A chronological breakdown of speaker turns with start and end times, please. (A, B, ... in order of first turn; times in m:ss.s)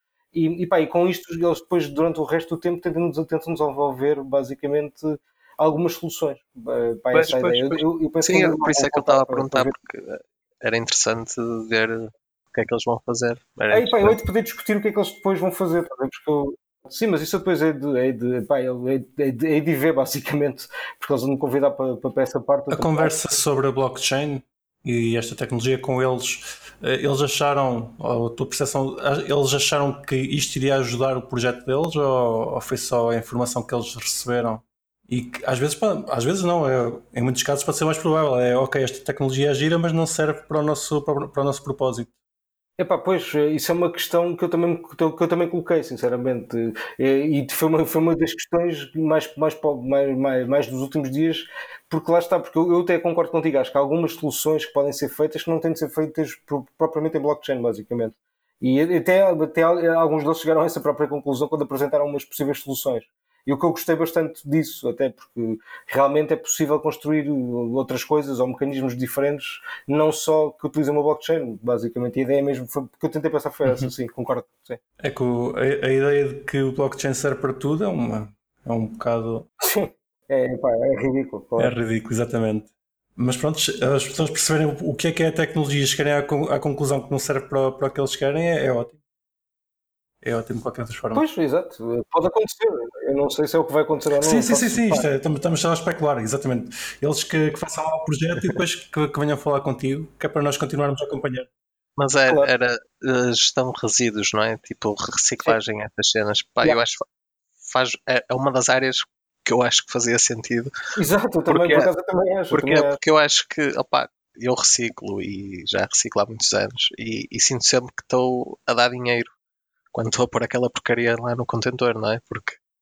0:00.3-0:09.7 A
0:07.1-0:14.2 B
0:13.7-0:23.1 A
0:22.7-0:42.1 C
0:42.8-1:14.8 A
1:13.6-1:13.9 C
1:15.0-1:19.4 C
1:19.6-1:21.7 A
1:21.6-1:29.0 C
1:30.2-1:31.2 C
1:31.1-1:35.0 A
1:34.2-1:41.5 C
1:42.0-1:47.0 B
1:47.6-1:50.7 B
1:51.0-1:53.0 A
1:51.5-1:51.9 B
1:52.5-1:59.3 B
1:59.9-2:02.6 B